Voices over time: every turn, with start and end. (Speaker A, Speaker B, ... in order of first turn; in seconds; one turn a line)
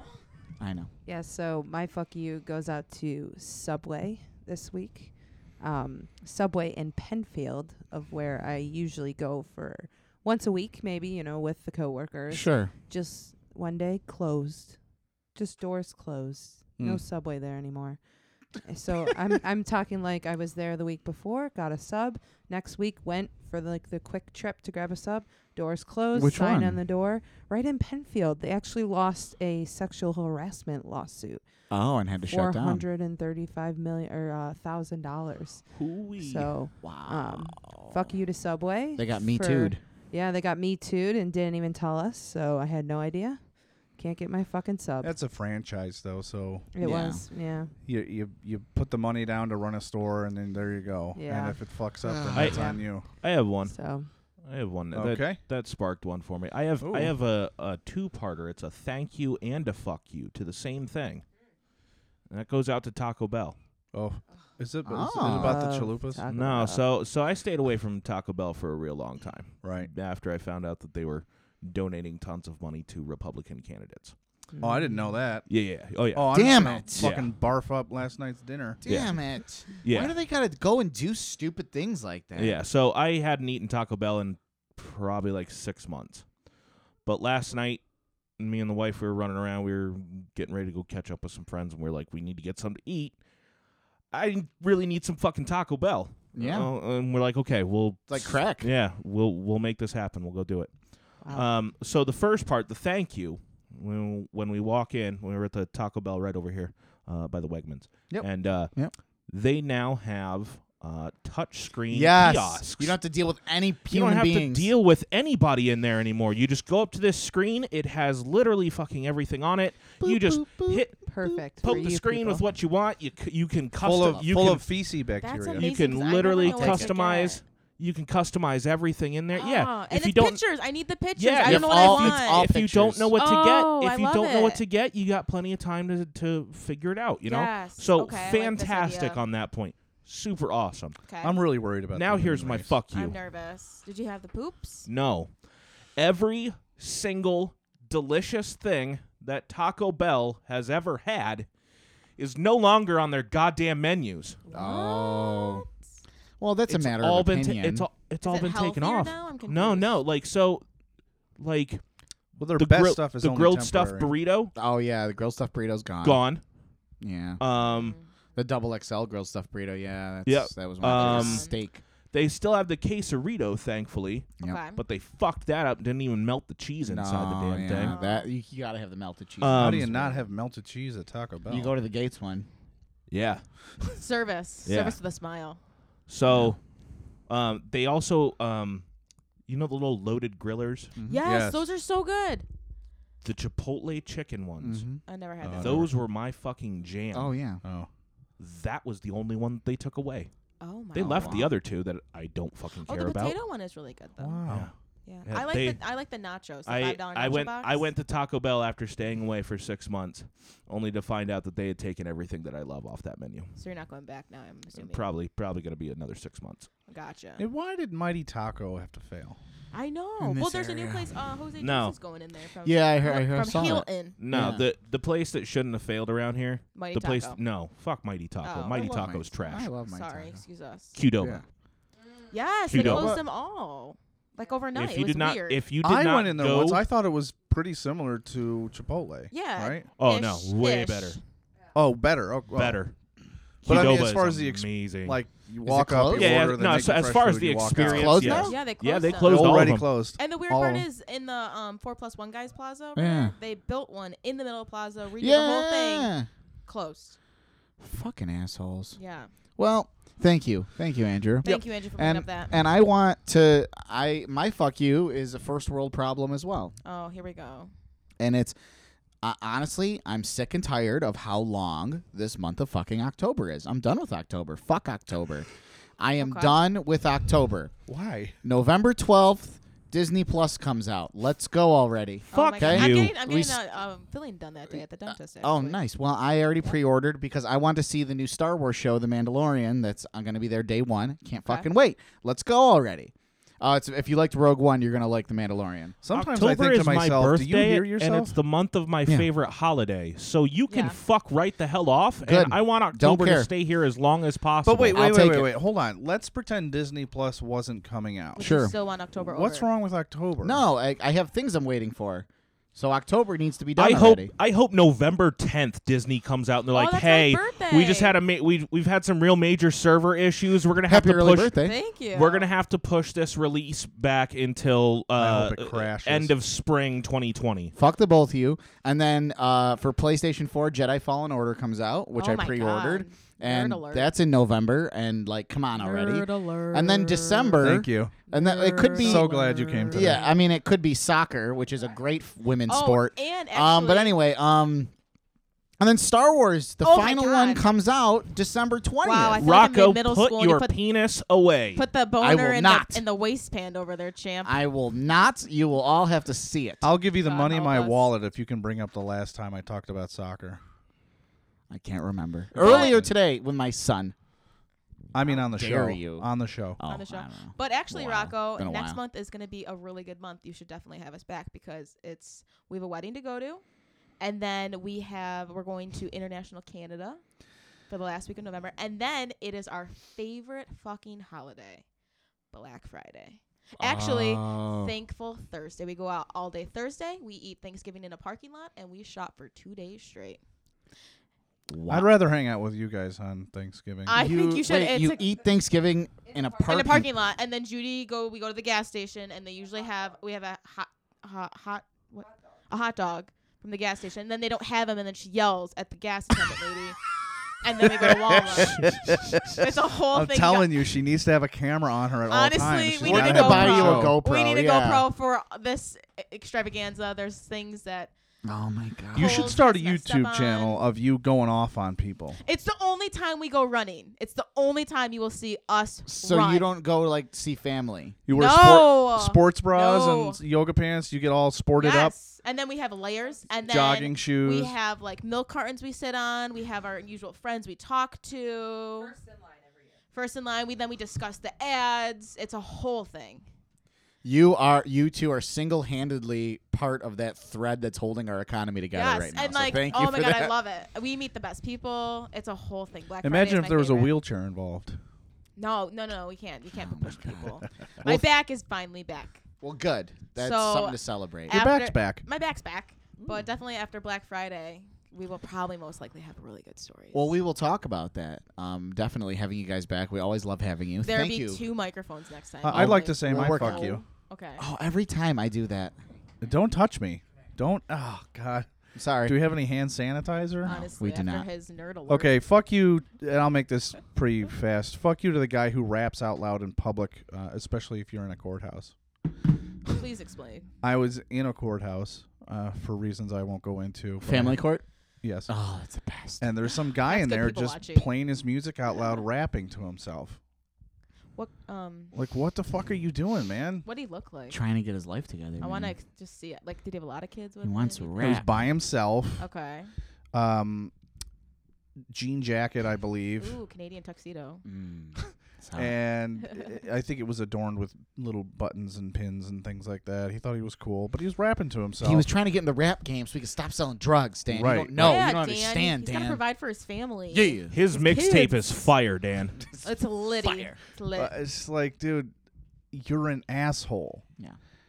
Speaker A: 0.6-0.9
Speaker B: 1.1-14.8
Speaker A: 12.3-12.7
Speaker B: 15.3-18.0
Speaker B: 18.6-31.4
Speaker A: 26.1-26.8
Speaker A: 31.7-32.9
Speaker B: 32.2-35.6
Speaker C: 35.7-36.5
Speaker B: 36.2-43.4
Speaker A: 36.8-37.9
Speaker A: 39.0-39.8
Speaker B: 44.0-45.1
Speaker D: 45.0-46.7
Speaker B: 46.7-47.7
Speaker A: 46.8-47.2
Speaker D: 47.8-53.1
Speaker B: 51.1-51.6
Speaker A: 52.0-52.6
Speaker C: 52.3-53.8
Speaker B: 52.5-52.8
Speaker B: 53.6-54.1
Speaker C: 54.4-61.2
Speaker D: 54.9-55.4
Speaker D: 56.8-57.1
Speaker C: 62.3-63.5
Speaker D: 63.9-66.2
Speaker A: 64.8-65.7
Speaker B: 65.2-66.8
Speaker C: 66.3-74.2
Speaker D: 69.6-69.9
Speaker B: 74.5-75.0
Speaker D: 74.6-75.5
Speaker C: 75.5-77.3
Speaker D: 76.1-78.8
Speaker A: 76.3-77.1
Speaker A: 78.8-82.6
Speaker C: 78.8-80.1
Speaker C: 82.3-86.3
Speaker C: 87.0-87.8
Speaker C: 88.4-93.2
Speaker C: 94.1-108.7
Speaker A: 96.3-96.7
Speaker A: 98.1-98.7
Speaker B: 101.2-101.5
Speaker A: 108.1-108.9
Speaker C: 109.3-113.0
Speaker A: 111.9-114.7
Speaker C: 113.9-124.8
Speaker A: 120.0-121.4
Speaker B: 121.0-122.5
Speaker D: 123.8-125.7
Speaker E: 125.2-127.4
Speaker C: 125.5-130.4
Speaker A: 126.4-126.9
Speaker E: 129.3-132.5
Speaker C: 131.2-140.9
Speaker A: 131.4-133.1
Speaker E: 133.2-134.6
Speaker E: 137.2-139.2
Speaker E: 141.0-141.4
Speaker D: 141.2-142.7
Speaker C: 141.9-143.2
Speaker E: 142.9-144.8
Speaker C: 144.8-145.3
Speaker C: 145.9-151.5
Speaker C: 152.2-154.4
Speaker E: 154.4-155.7
Speaker A: 154.5-155.7
Speaker A: 156.4-157.9
Speaker C: 156.7-160.6
Speaker E: 158.2-160.0
Speaker C: 161.4-161.8
Speaker D: 162.4-164.1
Speaker C: 162.5-164.5
Speaker A: 164.6-166.2
Speaker C: 166.0-166.4
Speaker A: 167.0-167.4
Speaker C: 167.4-168.0
Speaker E: 167.6-168.1
Speaker A: 168.3-171.8
Speaker C: 170.2-171.5
Speaker E: 170.8-171.6
Speaker C: 172.1-177.9
Speaker E: 174.4-174.8
Speaker A: 176.8-180.2
Speaker E: 177.7-178.3
Speaker C: 179.4-180.1
Speaker D: 179.5-181.7
Speaker A: 181.5-182.5
Speaker C: 183.1-183.9
Speaker E: 183.9-185.6
Speaker C: 184.7-185.0
Speaker C: 186.1-186.6
Speaker A: 186.3-186.5
Speaker C: 187.3-188.8
Speaker C: 189.5-190.9
Speaker A: 190.9-191.2
Speaker E: 191.1-192.4
Speaker D: 191.2-191.7
Speaker C: 193.2-194.9
Speaker A: 194.6-195.0
Speaker E: 195.0-195.9
Speaker D: 195.4-195.9
Speaker C: 195.6-197.3
Speaker A: 197.1-197.6
Speaker D: 197.6-197.9
Speaker C: 198.4-200.3
Speaker E: 200.6-201.4
Speaker C: 200.9-203.4
Speaker A: 201.0-201.5
Speaker E: 202.9-204.4
Speaker D: 204.2-204.7
Speaker C: 204.5-204.7
Speaker E: 205.0-207.9
Speaker C: 205.3-205.8
Speaker C: 206.7-213.5
Speaker E: 213.6-215.1
Speaker C: 214.7-216.7
Speaker E: 216.9-217.4
Speaker D: 217.4-219.4
Speaker E: 219.7-224.6
Speaker A: 220.2-221.1
Speaker C: 221.6-221.9
Speaker A: 222.6-224.7
Speaker C: 224.2-229.7
Speaker E: 226.7-227.4
Speaker E: 228.4-230.9
Speaker A: 228.8-230.4
Speaker C: 230.9-231.4
Speaker E: 232.3-235.6
Speaker C: 232.7-233.2
Speaker D: 232.7-233.2
Speaker C: 234.7-236.8
Speaker D: 235.8-239.8
Speaker E: 239.3-241.2
Speaker C: 239.9-241.2
Speaker D: 241.7-242.8
Speaker C: 242.5-242.9
Speaker C: 243.6-245.2
Speaker A: 243.6-244.1
Speaker D: 243.6-248.5
Speaker A: 245.6-246.6
Speaker C: 246.1-250.1
Speaker A: 247.7-248.6
Speaker E: 248.4-256.1
Speaker D: 249.1-250.9
Speaker A: 252.9-253.3
Speaker A: 255.2-256.3
Speaker E: 256.6-257.2
Speaker A: 257.8-259.0
Speaker E: 259.0-259.3
Speaker A: 259.6-266.7
Speaker E: 261.4-262.6
Speaker E: 266.8-267.7
Speaker A: 268.2-268.6
Speaker A: 269.2-275.5
Speaker A: 276.0-277.7
Speaker E: 276.2-276.6
Speaker D: 277.9-278.3
Speaker A: 278.4-283.6
Speaker C: 282.3-283.1
Speaker E: 282.3-285.8
Speaker A: 285.4-296.0
Speaker D: 296.0-298.4
Speaker C: 296.1-305.4
Speaker E: 300.7-301.0
Speaker A: 302.2-303.5
Speaker D: 304.6-308.4
Speaker A: 304.9-305.5
Speaker E: 308.4-309.7
Speaker A: 308.4-308.7
Speaker D: 309.2-310.6
Speaker A: 310.4-314.3
Speaker C: 313.8-327.7
Speaker E: 316.7-318.1
Speaker A: 320.9-321.8
Speaker E: 321.6-322.5
Speaker D: 325.2-326.4
Speaker A: 327.7-339.3
Speaker E: 332.1-334.1
Speaker E: 335.7-337.7
Speaker D: 337.6-338.1
Speaker E: 338.3-340.4
Speaker D: 339.0-340.2
Speaker A: 339.9-344.9
Speaker E: 342.7-344.2
Speaker A: 345.8-349.4
Speaker E: 346.8-347.7
Speaker E: 349.0-350.7
Speaker C: 349.4-351.8
Speaker E: 351.7-354.6
Speaker A: 352.2-353.0
Speaker A: 354.4-356.9
Speaker D: 356.8-360.6
Speaker E: 357.1-358.1
Speaker A: 361.7-364.1
Speaker D: 362.5-363.1
Speaker E: 362.6-363.0
Speaker D: 365.1-366.8
Speaker A: 365.1-369.0
Speaker E: 366.9-373.6
Speaker E: 374.2-377.2
Speaker E: 377.9-381.8
Speaker E: 382.5-390.4
Speaker A: 383.8-384.9
Speaker A: 391.7-392.1
Speaker D: 391.9-394.2
Speaker E: 394.1-395.3
Speaker A: 394.1-397.1
Speaker E: 396.7-407.0
Speaker E: 407.6-410.9
Speaker D: 407.8-414.1
Speaker E: 412.3-418.1
Speaker A: 413.0-415.0
Speaker A: 418.4-419.6
Speaker D: 419.1-422.4
Speaker E: 419.1-420.8
Speaker E: 422.4-426.7
Speaker A: 426.1-428.2
Speaker D: 428.3-432.1
Speaker E: 428.3-430.4
Speaker E: 431.8-439.2
Speaker D: 433.7-434.7
Speaker E: 440.1-443.4
Speaker A: 444.2-450.5
Speaker E: 448.9-454.2
Speaker D: 453.2-455.0
Speaker E: 455.6-459.4
Speaker A: 456.7-457.6
Speaker A: 459.6-461.6
Speaker E: 460.4-467.4
Speaker D: 461.5-462.2
Speaker A: 467.1-471.6
Speaker E: 471.0-474.6
Speaker D: 472.6-474.0
Speaker A: 472.6-474.0
Speaker A: 474.6-475.9
Speaker D: 476.4-478.7
Speaker A: 478.9-479.4
Speaker D: 479.2-480.9
Speaker E: 480.6-482.4
Speaker A: 481.0-481.5
Speaker D: 482.1-488.9
Speaker E: 489.9-490.7
Speaker D: 490.8-494.6
Speaker A: 494.2-494.8
Speaker D: 495.2-495.5
Speaker A: 495.5-496.5
Speaker D: 496.4-500.4
Speaker E: 497.0-498.1
Speaker E: 501.4-502.1
Speaker D: 502.1-503.8
Speaker E: 503.8-504.6
Speaker A: 504.5-505.9
Speaker E: 505.6-508.3
Speaker A: 507.6-508.6
Speaker D: 508.2-509.4
Speaker E: 509.4-509.9
Speaker D: 510.3-510.9
Speaker D: 512.1-513.6
Speaker E: 513.4-514.6
Speaker A: 514.6-516.0
Speaker D: 515.8-522.2
Speaker A: 522.0-526.4
Speaker D: 524.5-525.1
Speaker E: 525.0-528.9
Speaker A: 527.3-527.7
Speaker C: 527.7-529.6
Speaker E: 529.8-531.3
Speaker A: 530.5-530.7
Speaker D: 531.1-532.3
Speaker D: 532.9-534.2